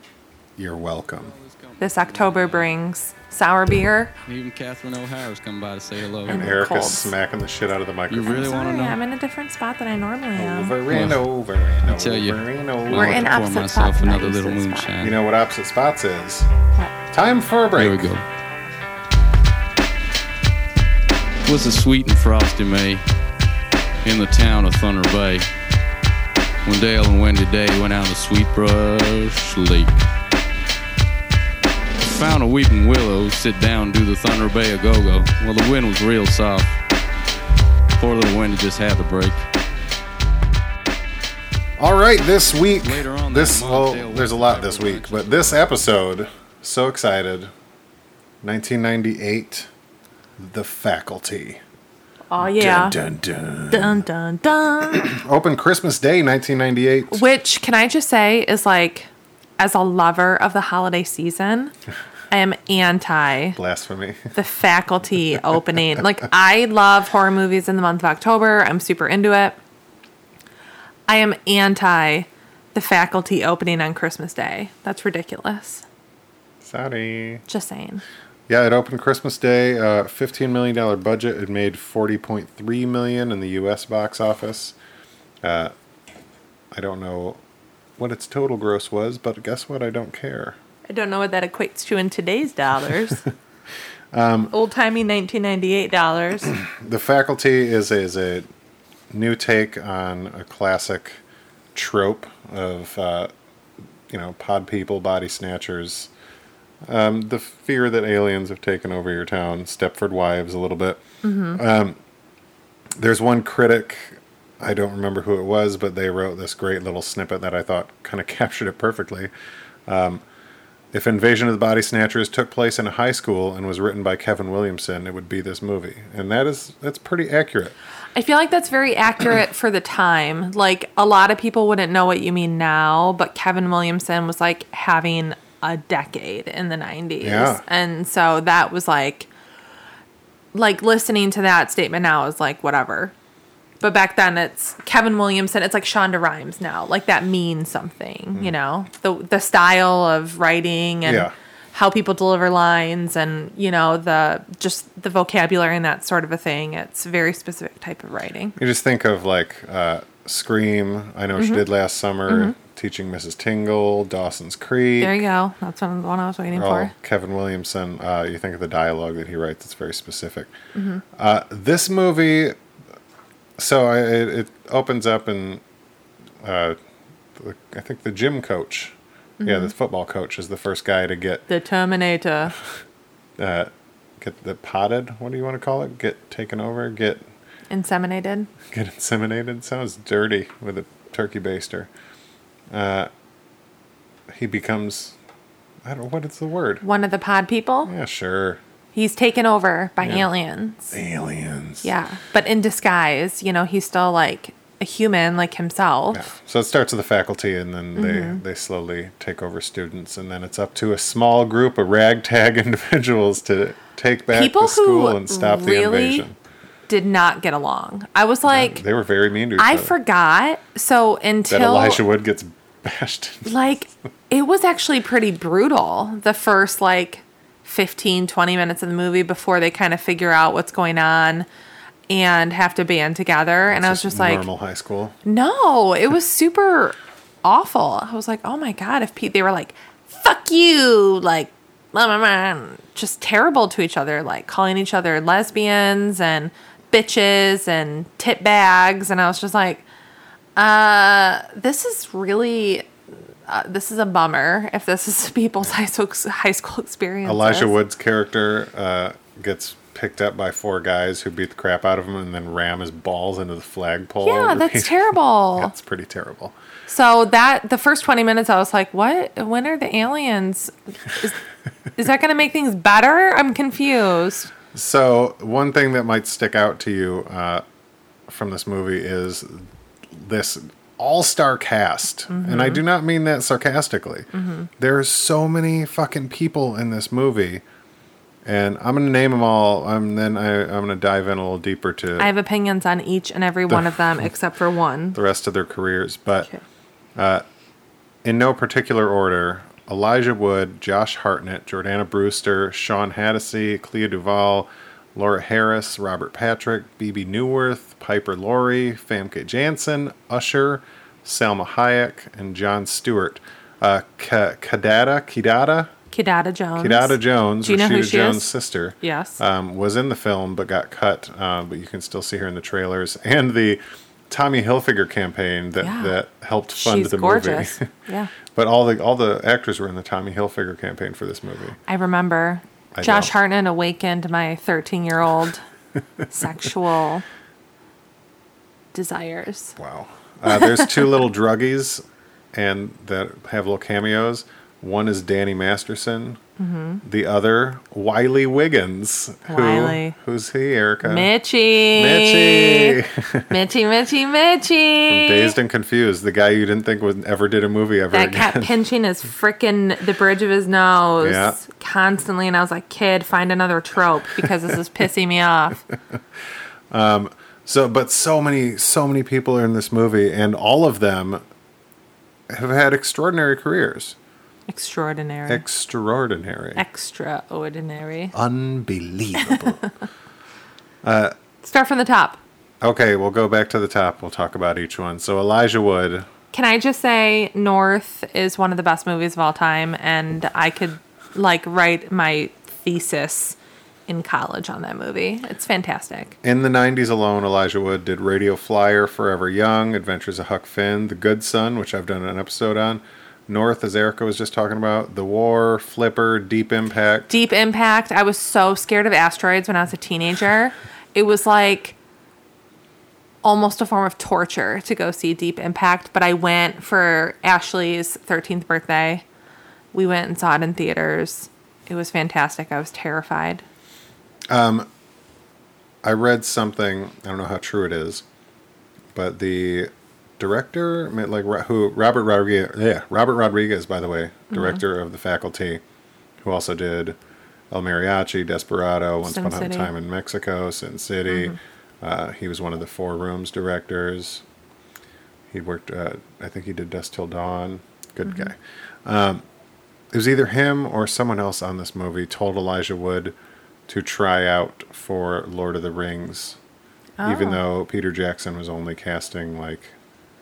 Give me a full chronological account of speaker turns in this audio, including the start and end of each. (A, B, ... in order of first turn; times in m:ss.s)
0:00.6-0:01.3 A
0:01.0-0:02.7 B
0:01.8-0:04.1 C
0:04.3-0:06.4 B
0:06.3-0:07.1 C
0:06.3-0:08.5 A
0:08.1-0:09.0 B
0:08.2-0:10.8 C
0:10.3-0:13.3 A
0:10.9-0:11.2 B
0:11.8-0:15.2 B
0:12.9-0:14.9 C
0:15.0-0:16.5 A
0:17.1-0:18.1 A
0:17.7-0:18.2 B
0:21.4-0:23.0 B
0:24.0-0:25.5 B
0:26.6-0:30.0 B
0:32.0-0:36.8 B
0:38.0-0:39.4 B
0:41.8-0:47.5 A
0:42.8-0:45.9 B
0:48.4-0:49.7 A
0:50.4-0:51.6 A
0:52.3-0:53.0 C
0:52.5-0:54.0 A
0:53.7-0:55.1 C
0:55.0-0:57.2 A
0:57.1-1:01.7 C
1:02.3-1:03.6 C
1:03.6-1:04.3 A
1:04.3-1:09.6 C
1:11.1-1:15.8 C
1:16.6-1:17.4 A
1:17.5-1:18.0 C
1:18.5-1:24.8 A
1:25.4-1:25.7 A
1:26.7-1:27.4 A
1:28.0-1:30.6 A
1:30.9-1:33.2 C
1:34.1-1:34.5 A
1:34.5-1:36.5 C
1:36.5-1:38.5 A
1:39.1-1:41.2 A
1:41.7-1:43.3 A
1:44.1-1:46.1 A
1:46.8-1:52.0 A
1:51.2-1:51.6 C
1:53.0-1:59.3 A
1:59.9-2:00.2 A
2:00.9-2:07.7 A
2:08.1-2:19.3 C
2:17.2-2:17.6 A
2:20.5-2:23.1 C
2:23.8-2:38.6 C
2:31.0-2:31.3 A
2:38.6-2:45.2 A
2:41.4-2:41.6 C
2:42.3-2:42.5 C
2:45.0-2:46.9 C
2:46.5-2:50.5 A
2:50.7-2:51.0 C
2:51.1-2:52.6 A
2:53.6-2:55.6 A
2:56.4-2:56.8 A
2:57.3-3:01.4 A
2:59.4-2:59.7 C
3:01.5-3:02.5 C
3:03.4-3:07.3 A
3:07.7-3:08.5 C
3:08.7-3:11.9 A
3:12.7-3:13.1 A
3:14.3-3:15.1 A
3:15.8-3:16.8 A
3:16.8-3:17.9 C
3:17.8-3:18.6 A
3:18.9-3:20.9 C
3:20.0-3:20.3 A
3:20.9-3:21.9 A
3:21.8-3:26.3 C
3:26.1-3:36.4 A
3:28.0-3:28.4 C
3:34.3-3:36.2 C
3:36.9-3:38.8 C
3:38.4-3:39.9 A
3:39.6-3:42.0 C
3:41.5-3:43.5 A
3:43.4-3:51.5 C
3:52.1-3:54.4 C
3:53.7-3:55.2 A
3:55.2-4:09.8 C
4:10.6-4:12.9 C
4:13.5-4:17.7 C
4:17.2-4:26.6 A
4:24.2-4:25.7 C
4:26.9-4:31.4 C
4:32.0-4:34.5 C
4:34.7-4:37.6 A
4:38.3-4:47.6 A
4:42.3-4:42.8 C
4:44.3-4:44.7 C
4:48.4-4:52.3 A
4:52.2-4:55.2 C
4:55.1-4:56.5 A
4:57.2-4:57.4 A
4:58.2-5:15.9 A
5:16.1-5:19.4 C
5:16.8-5:27.9 A
5:25.8-5:26.2 C
5:26.8-5:28.3 C
5:28.5-5:31.8 A
5:31.9-5:35.6 C
5:32.9-5:33.3 A
5:36.3-5:37.2 C
5:38.9-5:39.8 C
5:39.8-5:46.4 A
5:40.5-5:40.9 C
5:46.6-5:47.0 C
5:47.0-5:51.3 A
5:49.5-5:50.2 C
5:51.0-5:55.5 C
5:51.9-5:53.5 A
5:55.1-5:58.7 A
5:58.1-6:05.8 C
6:01.2-6:01.6 A
6:06.9-6:11.4 A
6:12.5-6:14.2 A
6:14.7-6:15.6 C
6:15.5-6:16.8 A
6:16.7-6:18.3 C
6:18.3-6:19.8 A
6:19.5-6:19.7 C
6:21.0-6:21.3 A
6:21.6-6:22.4 C
6:22.8-6:26.3 A
6:26.5-6:33.6 C
6:34.1-6:36.3 C
6:36.4-6:47.3 A
6:47.3-6:52.0 C
6:53.4-6:59.2 C
6:59.9-7:03.6 C
7:04.5-7:04.9 A
7:06.0-7:08.2 A
7:09.1-7:15.8 A
7:14.5-7:14.8 C
7:16.4-7:17.2 A
7:17.7-7:24.4 A
7:19.2-7:19.9 C
7:21.3-7:21.6 C
7:25.5-7:29.4 A
7:30.1-7:33.3 A
7:33.9-7:36.6 A
7:37.2-7:37.6 C
7:37.2-7:39.9 A